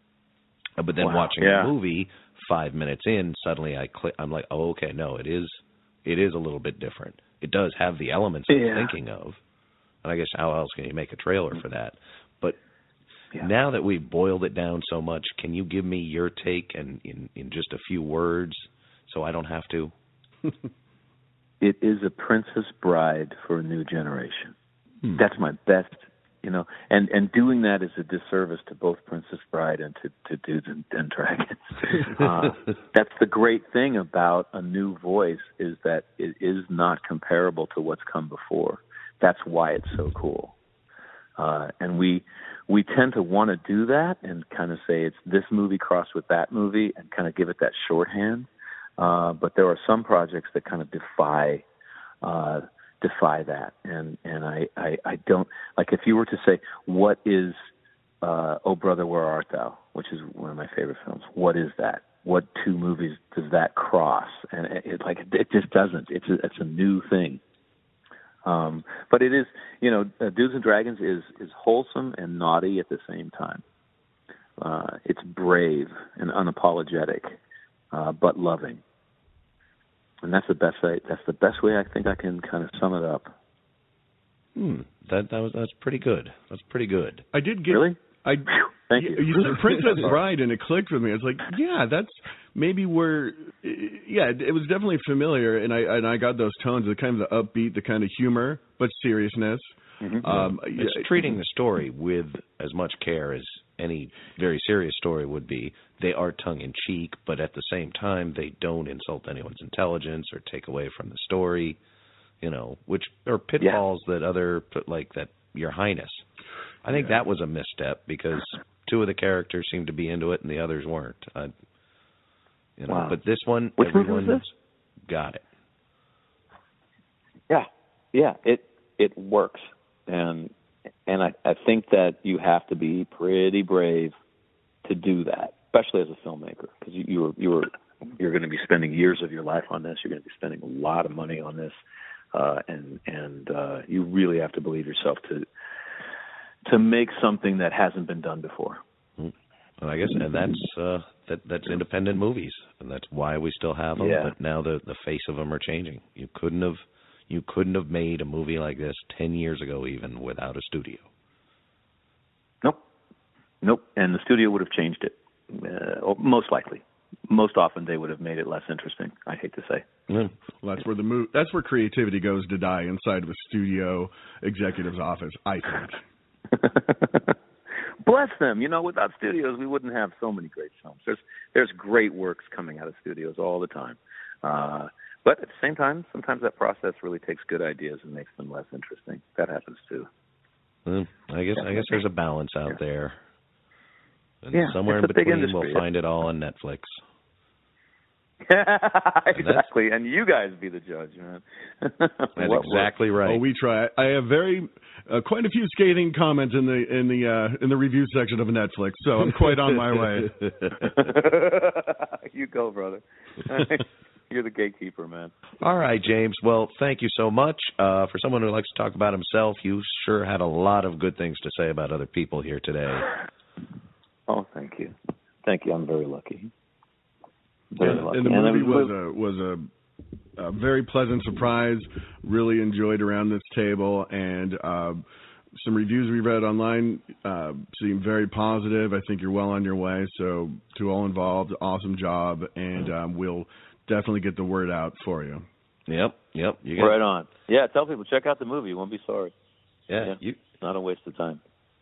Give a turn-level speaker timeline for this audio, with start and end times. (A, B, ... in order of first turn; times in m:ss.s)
0:00.8-0:09.4 A
0:01.0-0:01.7 B
0:08.5-0:08.9 B
0:10.0-0:12.6 A
0:13.4-0:19.9 A
0:21.6-0:24.6 B
0:25.2-0:40.6 B
0:32.2-0:32.5 A
0:41.4-0:51.6 B
0:52.2-0:57.6 B
0:58.2-1:07.4 B
1:08.4-1:13.6 B
1:14.6-1:17.4 B
1:17.9-1:18.8 B
1:20.2-1:23.3 B
1:24.6-1:27.2 A
1:27.3-1:41.4 C
1:27.7-1:28.0 B
1:28.5-1:30.2 B
1:40.3-1:51.8 A
1:52.4-1:56.3 A
1:56.8-2:01.5 A
2:02.8-2:04.5 A
2:02.9-2:03.2 B
2:03.8-2:04.4 B
2:05.1-2:05.4 A
2:07.5-2:10.5 B
2:11.1-2:14.1 B
2:14.8-2:21.7 B
2:22.3-2:25.5 B
2:26.7-2:28.8 B
2:29.2-2:41.1 A
2:34.0-2:34.3 B
2:43.6-2:49.8 B
2:50.1-2:50.3 A
2:50.6-2:56.0 C
2:56.5-2:57.3 B
2:58.0-3:10.1 B
3:10.9-3:13.2 A
3:11.6-3:12.0 B
3:14.4-3:17.0 A
3:14.5-3:15.8 B
3:18.5-3:22.9 B
3:19.3-3:19.7 A
3:22.4-3:23.4 A
3:23.3-3:30.4 C
3:30.4-3:30.9 A
3:30.9-3:35.3 B
3:35.6-3:43.1 A
3:44.3-3:46.5 B
3:47.8-3:48.9 B
3:47.8-3:49.7 C
3:50.4-3:55.0 C
3:55.6-4:05.5 C
4:05.9-4:07.0 A
4:06.8-4:09.3 B
4:09.9-4:10.4 A
4:10.0-4:11.4 B